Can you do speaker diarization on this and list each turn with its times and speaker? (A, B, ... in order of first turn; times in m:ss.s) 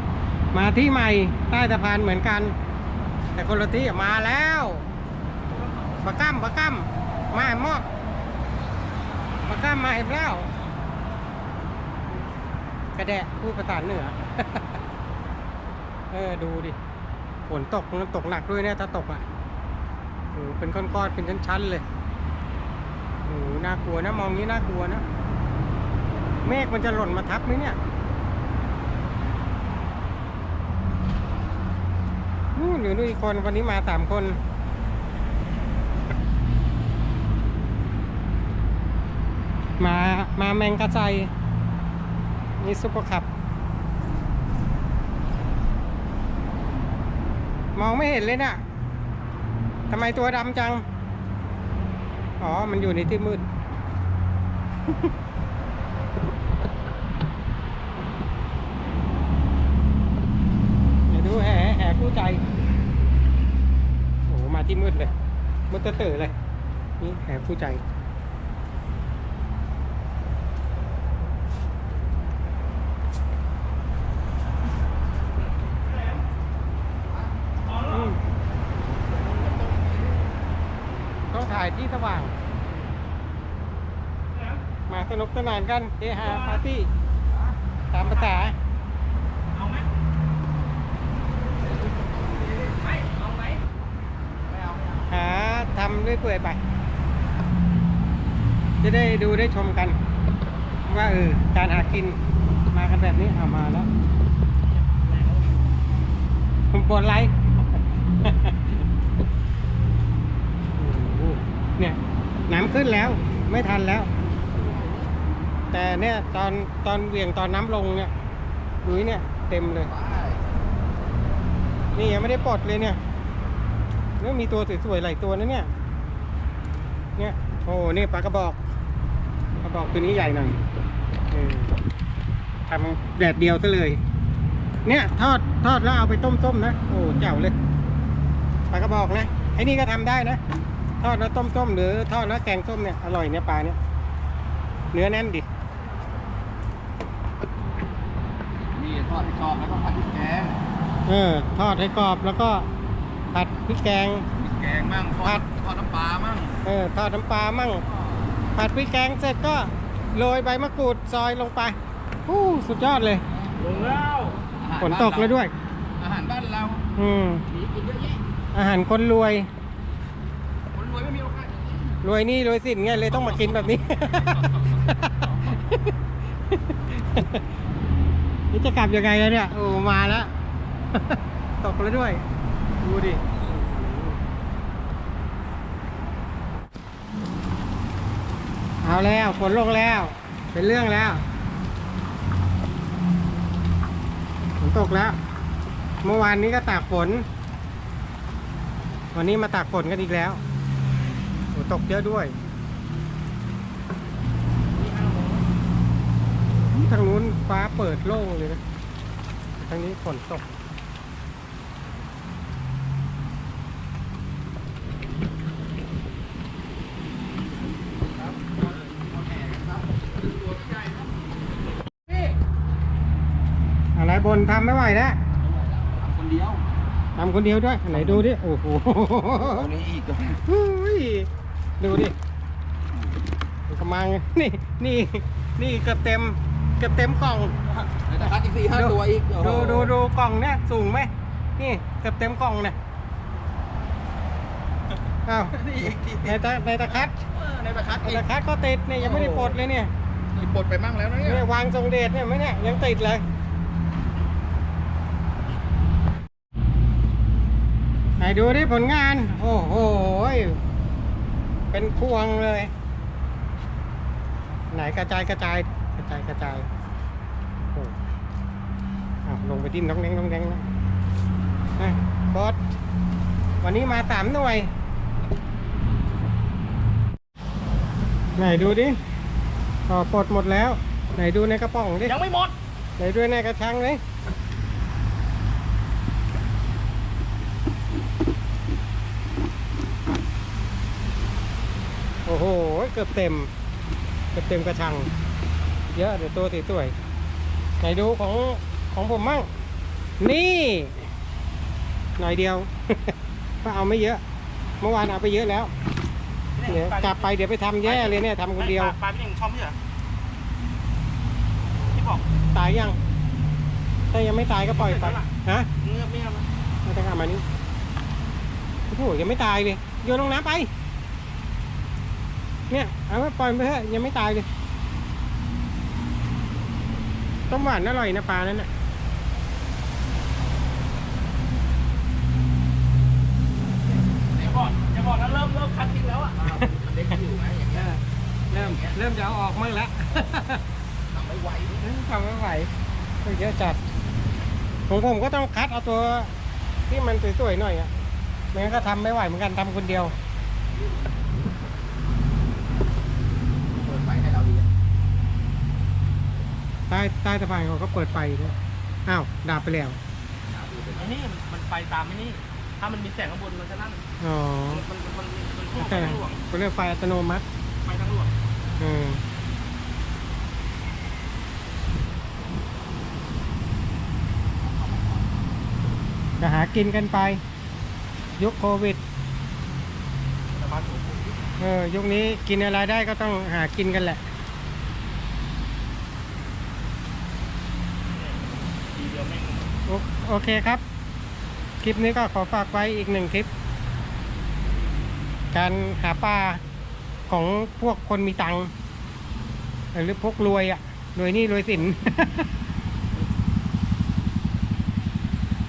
0:00.5-0:02.6 A
0:03.3-0:04.8 A
0:06.0-0:07.8 A
0:09.5-0:10.5 A
0:13.0-0:14.6 A
0:16.1-0:16.8 A
0:17.5-0:19.2 A
0:20.3-0:21.8 A
0:23.2-0:25.0 A
0:26.4-0:27.8 A
0:32.6-0:34.4 A
0:39.8-0:41.3 A
0:42.6-0:43.3 A
0:47.8-0:48.6 A
0:49.9-0:50.8 A
0:52.4-0:53.4 A
1:01.1-1:02.4 A
1:04.3-1:05.1 A
1:05.7-1:06.3 A
1:07.0-1:07.8 A
1:17.7-1:18.1 B
1:17.8-1:18.2 A
1:19.3-1:20.0 C
1:21.3-1:22.3 A
1:24.3-1:24.6 B
1:24.9-1:26.9 A
1:26.2-1:26.6 B
1:27.9-1:28.6 A
1:28.0-1:28.5 B
1:29.5-1:29.9 B
1:32.7-1:33.6 B
1:35.1-1:36.6 A
1:38.8-1:40.0 A
1:40.8-1:42.2 A
1:42.7-1:43.9 A
1:44.7-1:45.6 B
1:46.7-1:48.6 A
1:50.8-1:54.1 A
1:54.5-1:55.1 C
1:55.7-1:58.1 A
1:58.8-1:59.9 A
1:59.9-2:00.4 C
2:01.9-2:03.0 A
2:04.2-2:05.7 A
2:07.2-2:08.6 A
2:09.6-2:10.6 A
2:11.3-2:11.7 A
2:12.7-2:14.0 A
2:14.8-2:17.5 A
2:18.7-2:20.4 A
2:21.0-2:23.8 A
2:24.9-2:25.4 A
2:28.7-2:30.6 C
2:31.1-2:32.7 A
2:33.3-2:34.3 A
2:34.4-2:36.6 C
2:36.6-2:37.8 A
2:38.5-2:43.2 A
2:43.5-2:43.9 C
2:43.6-2:44.4 B
2:44.6-2:45.4 C
2:44.8-2:45.5 A
2:46.0-2:46.8 C
2:47.0-2:47.4 A
2:47.5-2:48.2 C
2:48.5-2:49.5 A
2:50.7-2:51.9 C
2:52.0-2:55.9 A
2:56.5-2:57.4 A
2:58.5-3:00.3 A
3:00.9-3:02.2 A
3:02.8-3:04.2 A
3:08.8-3:11.2 A
3:14.6-3:15.2 A
3:16.0-3:17.2 A
3:19.1-3:20.4 A
3:21.5-3:22.3 A
3:24.7-3:25.4 B
3:26.7-3:28.6 A
3:29.6-3:30.4 A
3:38.4-3:41.0 C
3:44.0-3:45.2 A
3:45.4-3:46.6 C
3:47.2-3:49.7 A
3:47.9-3:48.2 C
3:49.5-3:50.4 C
3:50.4-3:51.3 A
3:51.8-3:52.1 A
3:53.7-3:57.5 A
3:57.9-3:59.9 C
3:58.7-4:02.8 A
4:05.2-4:07.2 A
4:05.5-4:08.2 C
4:08.0-4:09.9 A
4:09.0-4:09.6 C
4:10.3-4:11.4 C
4:11.2-4:13.2 A
4:18.2-4:20.6 A
4:21.7-4:22.7 A
4:24.7-4:26.7 A
4:29.2-4:30.6 A
4:31.8-4:32.6 A
4:33.6-4:34.7 A
4:38.4-4:39.0 A
4:39.9-4:42.2 A
4:42.0-4:42.5 B
4:43.0-4:44.0 A
4:52.2-4:53.5 A
4:54.3-4:55.1 A
4:55.9-4:56.9 A
4:57.8-4:59.5 A
5:00.2-5:01.0 A
5:02.2-5:04.2 A
5:04.8-5:05.7 A
5:06.6-5:07.3 B
5:06.6-5:08.9 A
5:07.8-5:09.8 B
5:11.9-5:12.2 B
5:12.5-5:13.0 A
5:14.1-5:15.7 A
5:14.6-5:15.3 B
5:15.8-5:16.5 B
5:16.8-5:17.4 A
5:18.9-5:20.7 A
5:22.7-5:24.5 A
5:27.5-5:28.7 A
5:34.4-5:36.5 B
5:36.4-5:37.9 C
5:37.7-5:40.6 A
5:38.5-5:39.0 C
5:41.1-5:41.8 C
5:41.8-5:42.7 A
5:43.2-5:43.8 A
5:44.9-5:46.3 A
5:46.9-5:47.9 A
5:48.5-5:50.1 A
5:53.8-5:54.7 C
5:56.9-6:00.0 A
6:00.5-6:01.1 C
6:01.0-6:04.0 B
6:04.2-6:04.8 A
6:04.7-6:06.4 B
6:05.8-6:07.4 A
6:07.8-6:08.3 B
6:08.8-6:09.2 A
6:16.4-6:17.4 A
6:18.4-6:19.0 A
6:20.5-6:21.4 B
6:21.6-6:24.2 A
6:28.1-6:29.7 B
6:29.8-6:30.8 A
6:31.8-6:33.5 A
6:35.5-6:36.6 A
6:37.3-6:38.7 A
6:39.9-6:42.5 A